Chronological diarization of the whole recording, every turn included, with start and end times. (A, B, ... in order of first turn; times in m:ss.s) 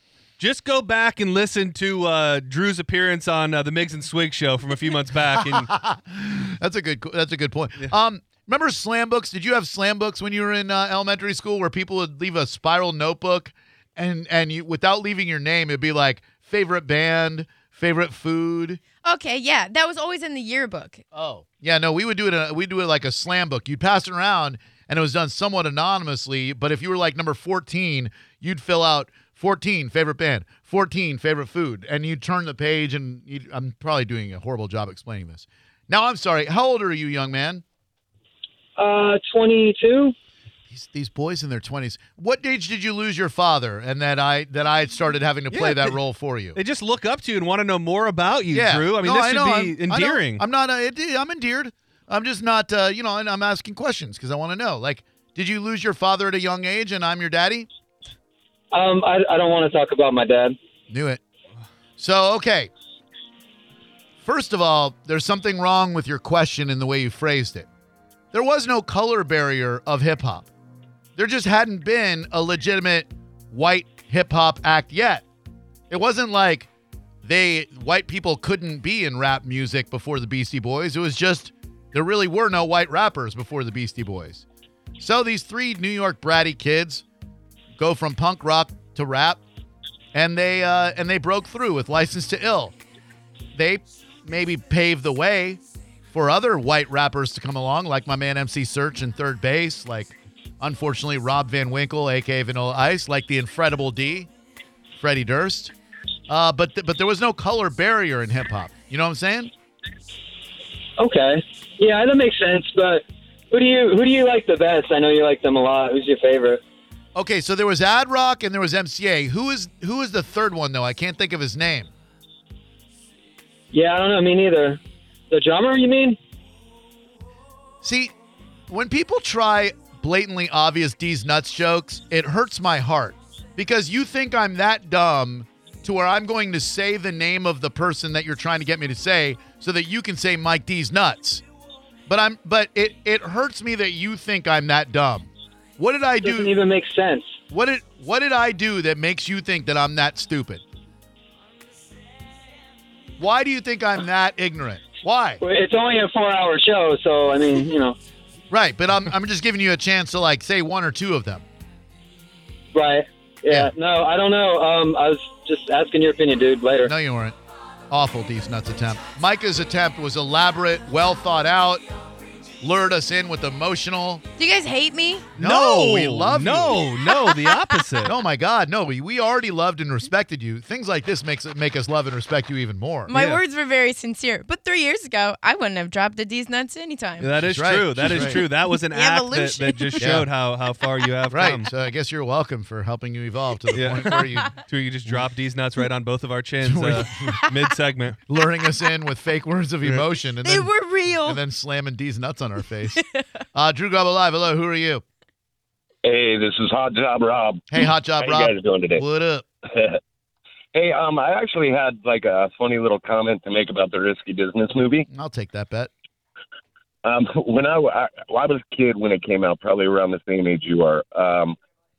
0:00.4-0:05.7 A
0:05.3-0:18.8 B
0:19.0-0:21.0 C
0:21.1-0:37.6 B
0:38.8-0:40.1 D
0:40.7-0:46.6 B
0:45.5-0:46.0 A
0:46.6-0:50.4 A
0:48.5-0:57.7 B
0:58.7-1:00.6 D
1:00.9-1:01.2 B
1:02.0-1:02.7 B
1:04.2-1:07.7 B
1:08.3-1:10.5 B
1:11.2-1:15.2 B
1:15.9-1:16.7 B
1:17.2-1:24.4 B
1:25.0-1:27.0 B
1:27.8-1:29.4 B
1:30.1-1:32.8 B
1:33.6-1:44.3 B
1:44.9-1:45.7 B
1:46.3-1:49.5 B
1:51.0-1:56.6 D
1:57.2-2:01.9 B
2:03.7-2:04.8 D
2:05.3-2:06.2 D
2:07.8-2:08.1 B
2:08.7-2:21.4 B
2:22.1-2:26.5 B
2:26.2-2:27.4 D
2:27.5-2:30.6 B
2:33.2-2:35.4 B
2:35.4-2:38.0 D
2:38.5-2:41.4 B
2:42.7-2:46.9 D
2:46.8-2:47.4 B
2:47.9-2:51.8 B
2:52.6-2:54.2 B
2:54.4-2:55.3 C
2:55.4-2:56.8 B
2:55.4-2:58.2 A
2:57.0-2:58.0 C
2:58.0-3:03.1 B
3:03.1-3:07.3 C
3:03.1-3:03.4 A
3:07.2-3:11.7 A
3:07.4-3:08.4 B
3:08.1-3:10.0 C
3:10.0-3:10.3 B
3:11.3-3:14.5 B
3:13.8-3:18.2 A
3:16.6-3:17.5 B
3:18.3-3:25.0 B
3:20.4-3:21.4 C
3:26.0-3:27.7 E
3:27.7-3:29.5 B
3:28.2-3:29.0 E
3:29.7-3:30.0 E
3:30.7-3:35.1 E
3:35.1-3:35.9 B
3:37.0-3:41.6 E